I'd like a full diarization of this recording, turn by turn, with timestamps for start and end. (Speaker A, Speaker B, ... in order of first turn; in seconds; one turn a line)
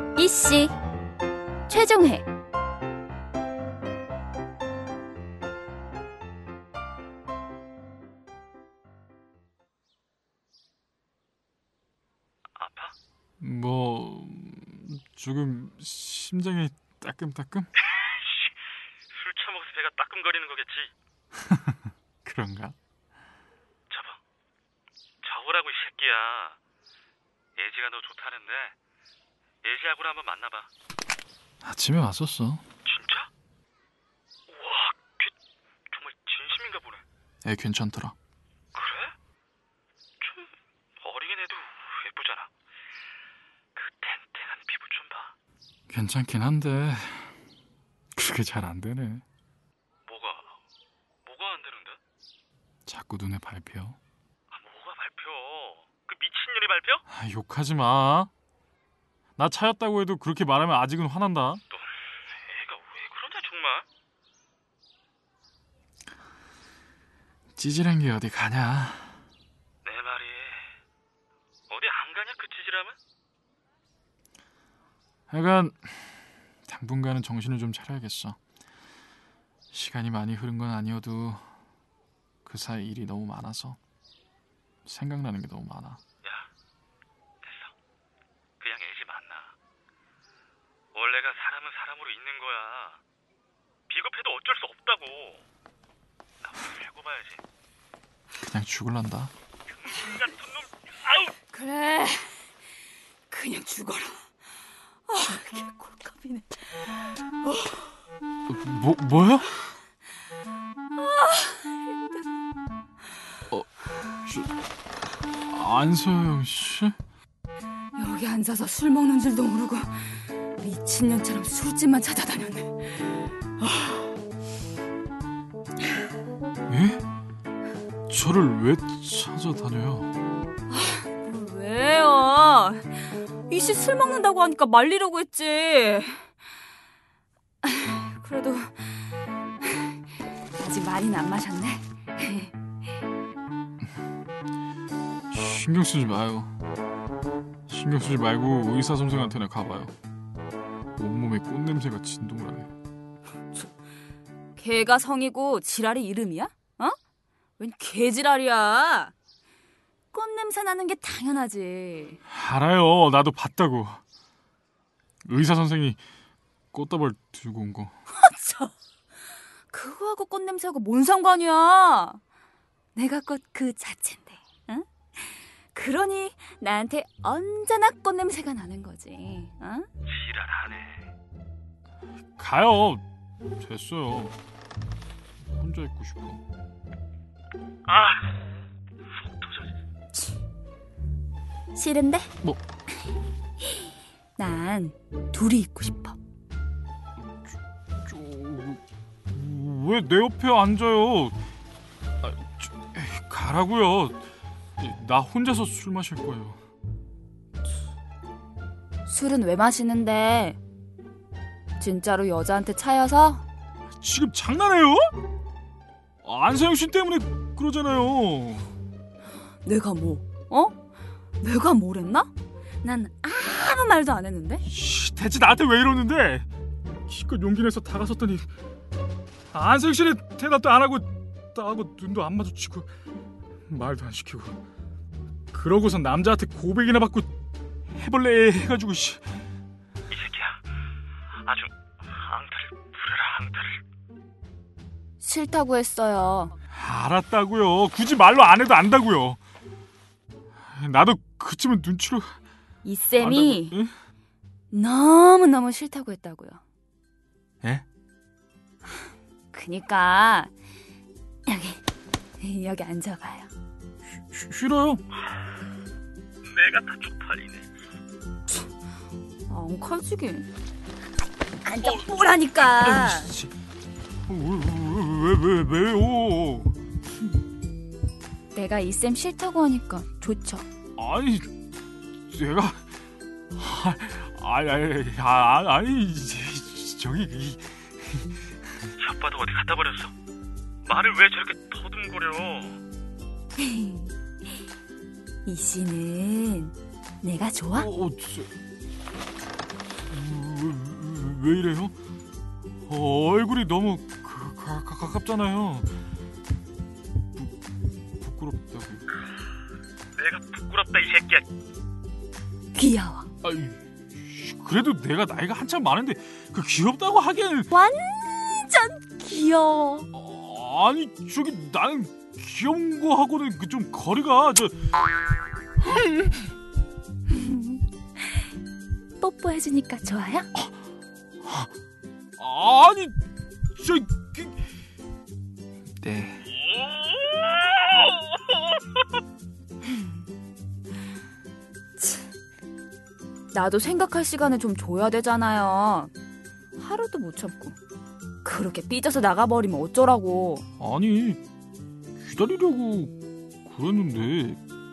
Speaker A: 0.2-0.8
Speaker A: 1.7-2.3
Speaker B: 12.6-12.9
Speaker C: 13.4-17.7
Speaker B: 17.9-18.5
Speaker B: 19.1-20.9
Speaker C: 21.4-22.8
Speaker B: 23.9-24.2
Speaker B: 25.2-26.6
Speaker B: 27.6-28.8
Speaker B: 29.6-30.7
Speaker C: 31.6-32.6
Speaker B: 32.9-33.3
Speaker B: 34.5-35.3
Speaker B: 35.9-37.0
Speaker C: 37.4-38.1
Speaker B: 38.7-39.1
Speaker B: 40.2-42.5
Speaker B: 43.8-45.3
Speaker C: 45.9-47.4
Speaker C: 48.1-49.2
Speaker B: 50.1-50.6
Speaker B: 51.3-52.0
Speaker C: 52.9-54.0
Speaker B: 54.5-57.0
Speaker C: 57.1-58.3
Speaker C: 59.4-61.6
Speaker B: 61.7-63.9
Speaker C: 67.6-69.2
Speaker B: 69.8-70.8
Speaker B: 71.7-73.0
Speaker C: 75.3-78.4
Speaker C: 79.7-81.5
Speaker C: 82.5-83.8
Speaker C: 84.8-86.0
Speaker B: 86.2-86.5
Speaker B: 87.4-87.7
Speaker B: 88.6-89.5
Speaker B: 90.9-93.0
Speaker B: 93.9-95.4
Speaker B: 96.4-97.4
Speaker C: 98.4-99.3
Speaker B: 99.8-100.7
Speaker A: 101.5-102.5
Speaker A: 103.3-104.3
Speaker A: 105.1-107.9
Speaker C: 108.5-109.5
Speaker A: 111.0-112.3
Speaker C: 114.2-114.5
Speaker C: 115.5-117.0
Speaker A: 118.0-124.1
Speaker C: 126.7-127.0
Speaker C: 128.1-130.1
Speaker A: 130.7-136.3
Speaker A: 137.6-140.0
Speaker A: 140.6-142.5
Speaker C: 145.3-146.5
Speaker C: 147.7-149.9
Speaker C: 151.0-152.7
Speaker A: 154.6-157.0
Speaker A: 157.6-159.1
Speaker A: 160.1-162.2
Speaker C: 162.3-164.0
Speaker C: 165.2-166.0
Speaker C: 166.7-167.9
Speaker A: 168.1-168.7
Speaker A: 169.7-172.2
Speaker A: 172.9-179.9
Speaker B: 180.1-181.1
Speaker C: 182.4-183.0
Speaker C: 183.6-184.4
Speaker C: 185.5-186.4
Speaker B: 187.9-188.6
Speaker B: 189.1-189.7
Speaker A: 191.8-192.3
Speaker A: 194.4-196.2
Speaker C: 198.1-201.3
Speaker C: 202.2-204.2
Speaker C: 204.8-206.6
Speaker A: 209.1-210.6
Speaker A: 211.8-213.4
Speaker C: 214.0-215.1
Speaker C: 216.2-218.7
Speaker A: 219.6-220.8
Speaker A: 221.4-222.3
Speaker A: 222.8-224.7
Speaker C: 224.7-226.5
Speaker C: 227.1-228.5
Speaker C: 229.5-232.9
Speaker C: 233.7-234.6
Speaker C: 235.5-237.3
Speaker C: 237.9-239.4
Speaker B: 240.1-240.6
Speaker B: 241.4-243.8
Speaker A: 245.2-246.5
Speaker C: 246.7-249.4
Speaker C: 250.7-252.4
Speaker A: 252.8-253.8
Speaker C: 253.2-253.9
Speaker A: 254.7-256.6
Speaker A: 259.5-260.5
Speaker A: 261.5-261.8
Speaker A: 262.4-263.5
Speaker C: 264.1-265.0
Speaker B: 266.5-267.7
Speaker A: 269.5-270.5
Speaker A: 271.6-273.3
Speaker C: 272.6-273.5
Speaker C: 274.3-276.8
Speaker A: 278.5-280.7
Speaker C: 281.0-281.5
Speaker C: 282.3-282.9
Speaker C: 283.5-288.3
Speaker B: 289.0-290.1
Speaker B: 290.9-292.8
Speaker A: 293.6-294.1
Speaker A: 295.4-297.9
Speaker C: 297.8-298.5
Speaker C: 300.1-301.9
Speaker C: 302.9-305.9
Speaker C: 308.2-309.1
Speaker B: 310.2-311.5
Speaker A: 312.8-313.3
Speaker C: 313.4-317.7
Speaker A: 317.7-320.1
Speaker C: 320.1-324.9
Speaker C: 325.8-326.3
Speaker A: 327.3-328.4
Speaker A: 329.2-330.5
Speaker C: 331.4-331.7
Speaker C: 332.4-333.2
Speaker C: 333.8-334.6
Speaker C: 336.0-336.5
Speaker B: 336.7-338.2
Speaker A: 342.0-342.3
Speaker A: 343.5-346.1
Speaker A: 346.8-347.8
Speaker A: 348.4-350.7
Speaker C: 350.8-351.4
Speaker C: 352.2-354.6